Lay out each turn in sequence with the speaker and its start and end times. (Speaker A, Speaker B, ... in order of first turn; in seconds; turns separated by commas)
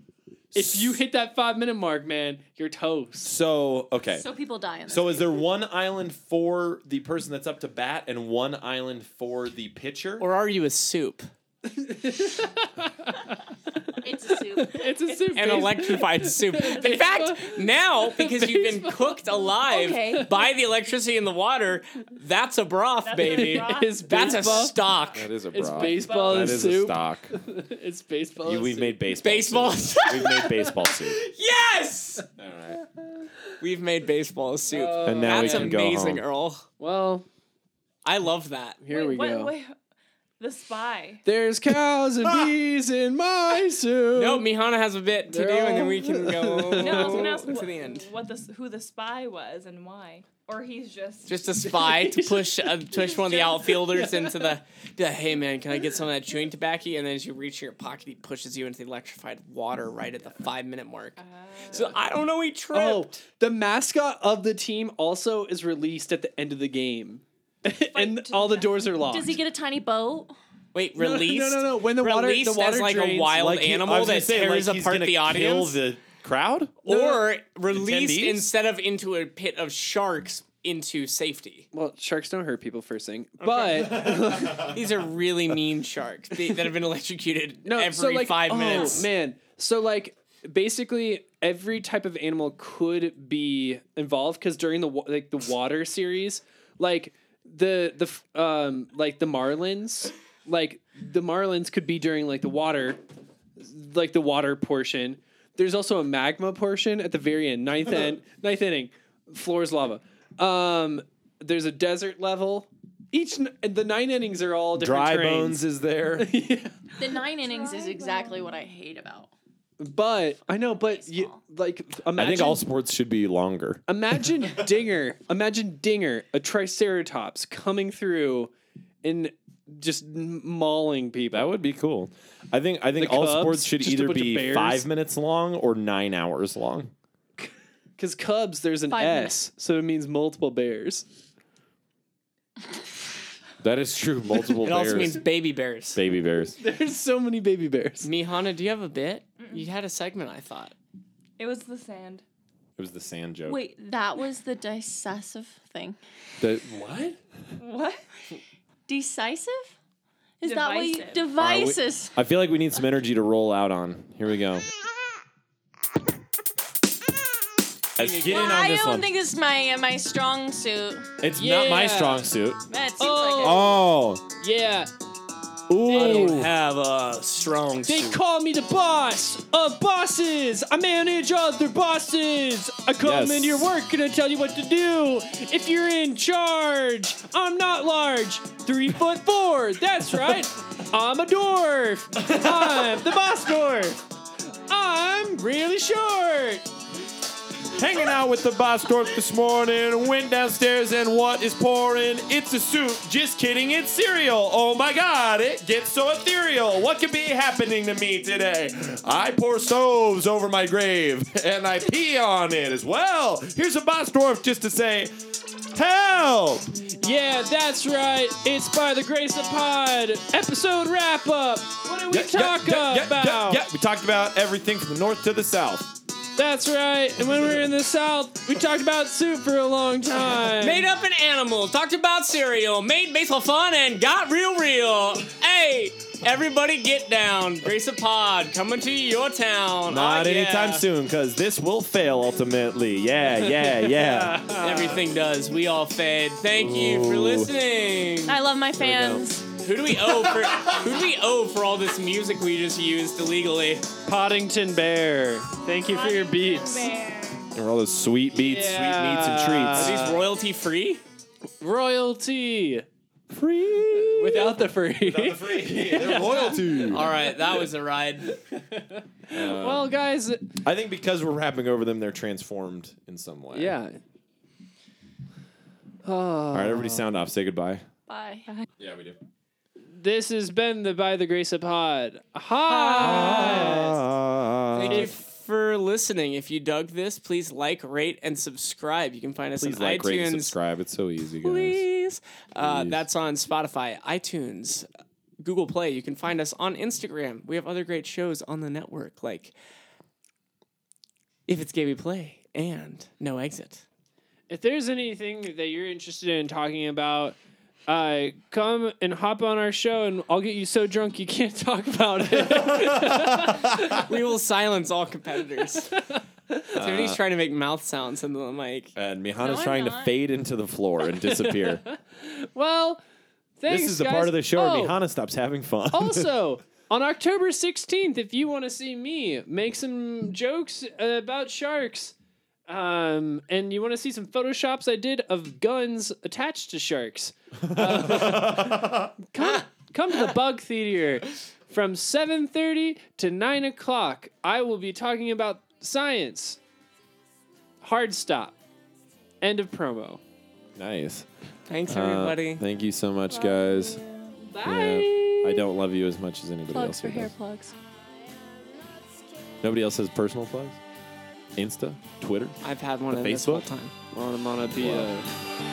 Speaker A: 0.5-3.3, Speaker B: 0.5-1.0, Speaker B: 3.2-4.2, Speaker C: 4.1-5.4, Speaker B: 4.9-10.2, Speaker D: 10.2-11.3, Speaker A: 11.7-19.3, Speaker C: 14.0-15.0, Speaker D: 15.3-25.3, Speaker C: 19.7-20.3, Speaker E: 23.0-24.7, Speaker A: 23.2-24.8, Speaker B: 25.1-27.3, Speaker A: 25.5-29.0, Speaker E: 26.0-26.6, Speaker B: 28.4-31.2, Speaker D: 29.2-30.5, Speaker A: 30.2-30.8, Speaker D: 31.2-32.2, Speaker B: 32.4-32.8, Speaker D: 33.6-36.6, Speaker A: 34.7-35.8, Speaker B: 35.0-36.2, Speaker A: 36.8-37.2, Speaker D: 38.0-38.8, Speaker A: 38.8-39.5, Speaker E: 38.9-39.7, Speaker E: 40.4-41.2, Speaker A: 41.2-44.5, Speaker D: 44.1-48.1, Speaker A: 45.3-47.6, Speaker E: 46.8-51.5, Speaker D: 51.2-63.2, Speaker A: 51.6-54.5, Speaker E: 61.2-61.8, Speaker A: 62.7-69.4, Speaker E: 67.9-68.7, Speaker C: 69.1-70.3, Speaker D: 70.7-75.8, Speaker A: 71.0-73.4, Speaker B: 73.3-78.5, Speaker D: 76.8-81.7, Speaker A: 81.7-84.8, Speaker D: 83.4-89.1, Speaker B: 83.9-84.7, Speaker A: 87.6-103.0, Speaker A: 103.6-115.6, Speaker B: 114.7-116.3, Speaker A: 116.2-116.7, Speaker C: 117.0-119.3, Speaker E: 117.2-118.6, Speaker A: 119.8-122.6, Speaker C: 120.5-121.4, Speaker B: 122.1-123.8, Speaker A: 123.9-128.5, Speaker A: 129.0-131.5, Speaker B: 131.3-136.9, Speaker A: 133.0-134.8, Speaker A: 137.4-141.1, Speaker C: 138.9-139.4, Speaker B: 143.6-145.2, Speaker D: 144.6-146.0, Speaker B: 145.9-146.6, Speaker A: 146.6-148.1, Speaker D: 148.0-150.7, Speaker E: 149.4-149.7, Speaker E: 151.4-152.2, Speaker B: 152.8-153.7, Speaker C: 153.5-156.0, Speaker B: 156.4-157.2, Speaker E: 157.6-158.0, Speaker C: 158.9-159.7, Speaker C: 160.4-162.2, Speaker E: 160.4-161.2, Speaker B: 161.4-164.6, Speaker B: 168.0-169.1, Speaker C: 168.2-171.1, Speaker B: 171.2-172.6, Speaker A: 171.3-172.3, Speaker C: 172.7-173.8, Speaker A: 173.0-173.7, Speaker B: 173.4-174.2, Speaker A: 174.3-174.9, Speaker B: 175.7-176.5, Speaker A: 175.8-176.4, Speaker D: 175.9-178.2, Speaker A: 177.8-194.0, Speaker B: 183.0-183.7, Speaker A: 194.7-196.6, Speaker B: 197.7-215.1, Speaker B: 215.7-216.8, Speaker A: 217.0-223.6, Speaker B: 222.1-225.9, Speaker A: 226.4-230.9, Speaker B: 227.2-227.7, Speaker D: 230.6-240.8, Speaker B: 239.9-244.4, Speaker A: 243.4-245.0, Speaker D: 244.5-248.4, Speaker B: 246.5-247.5, Speaker C: 248.2-249.5, Speaker B: 248.8-249.2, Speaker D: 249.6-253.9, Speaker B: 250.1-250.8, Speaker A: 254.1-256.9, Speaker E: 255.8-257.5, Speaker B: 257.5-260.0, Speaker A: 258.4-260.3, Speaker D: 259.7-261.0, Speaker A: 261.6-267.7, Speaker B: 263.5-267.1, Speaker D: 266.9-268.3, Speaker A: 268.3-270.6, Speaker B: 269.3-269.9, Speaker B: 270.6-273.8, Speaker A: 273.5-274.0, Speaker A: 276.0-277.0, Speaker B: 276.5-277.8, Speaker C: 278.1-278.5, Speaker B: 278.8-279.2, Speaker A: 280.0-284.0, Speaker D: 282.6-283.9, Speaker B: 282.9-285.1, Speaker D: 284.7-290.6, Speaker A: 284.9-285.1, Speaker B: 289.6-291.9, Speaker D: 291.4-294.9, Speaker B: 292.6-293.0, Speaker D: 295.4-299.5, Speaker D: 301.5-303.8, Speaker A: 304.5-314.1, Speaker B: 312.4-313.9, Speaker D: 313.9-316.0, Speaker A: 315.9-316.6, Speaker D: 316.7-318.9, Speaker B: 316.7-317.2, Speaker B: 318.9-321.8, Speaker C: 319.4-320.1, Speaker A: 321.1-323.0, Speaker A: 323.6-325.0, Speaker B: 323.7-326.3, Speaker A: 325.9-332.1, Speaker A: 332.7-346.6, Speaker B: 337.7-339.1, Speaker A: 347.8-348.6, Speaker A: 349.4-350.2, Speaker B: 350.8-351.3, Speaker D: 351.7-352.6, Speaker B: 351.9-354.0, Speaker E: 353.7-354.3, Speaker A: 354.4-355.6, Speaker B: 354.6-357.3, Speaker C: 356.7-357.7, Speaker B: 359.6-360.8, Speaker B: 361.6-362.6, Speaker D: 362.6-363.9, Speaker B: 363.1-363.7, Speaker A: 364.1-365.3, Speaker B: 364.7-365.1